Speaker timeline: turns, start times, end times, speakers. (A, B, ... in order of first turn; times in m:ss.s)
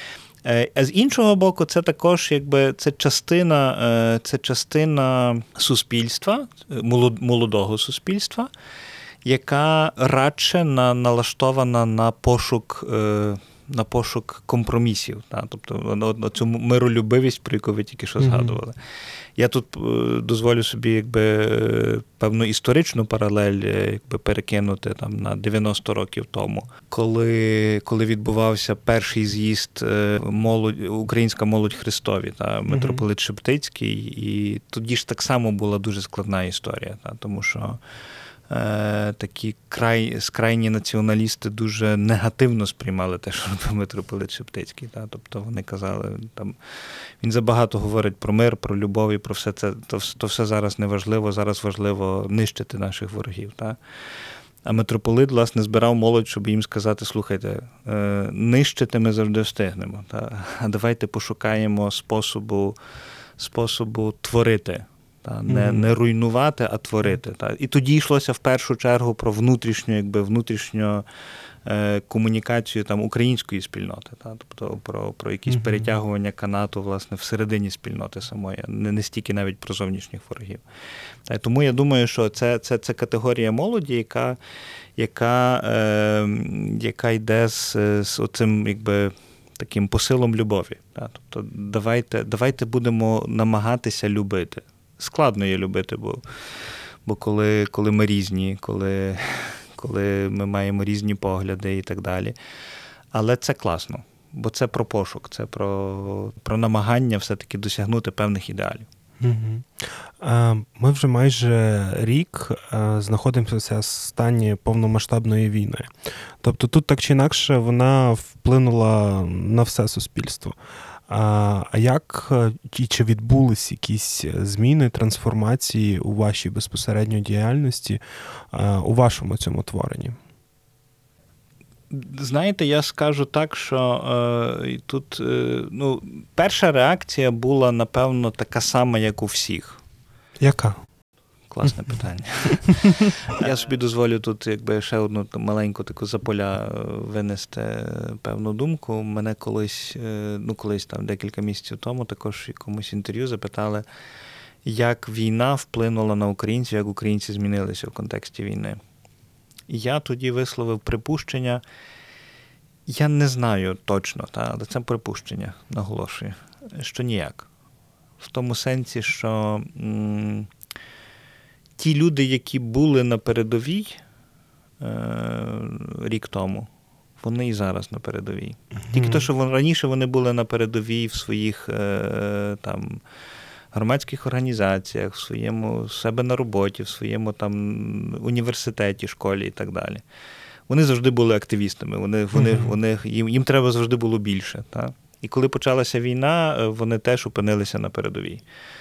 0:00.4-0:08.5 A
0:09.2-0:18.8 A
0:18.2-0:18.6 B
0:19.4-0:37.8 A
0:32.7-0:33.0 B
0:38.5-0:46.6 A
0:47.2-0:53.8 A
0:54.6-1:02.8 A
1:03.4-1:11.0 A
1:05.5-1:05.9 B
1:11.6-1:20.6 A
1:15.5-1:15.9 B
1:21.3-1:24.4 A
1:25.0-1:36.2 A
1:37.0-1:42.4 A
1:43.1-1:48.9 A
1:49.2-1:55.9 B
1:56.4-2:00.6 B
2:01.1-2:08.0 B
2:08.5-2:10.2 B
2:11.9-2:19.8 A
2:20.4-2:20.8 B
2:21.5-2:33.8 A
2:22.7-2:23.0 B
2:34.6-2:38.8 A
2:39.7-2:41.6 A
2:42.9-2:47.5 A
2:48.2-2:50.5 A
2:51.8-2:54.0 A
2:54.8-3:03.0 A
2:58.9-2:59.3 B
3:03.7-3:10.0 A
3:10.7-3:18.4 A
3:12.4-3:12.8 B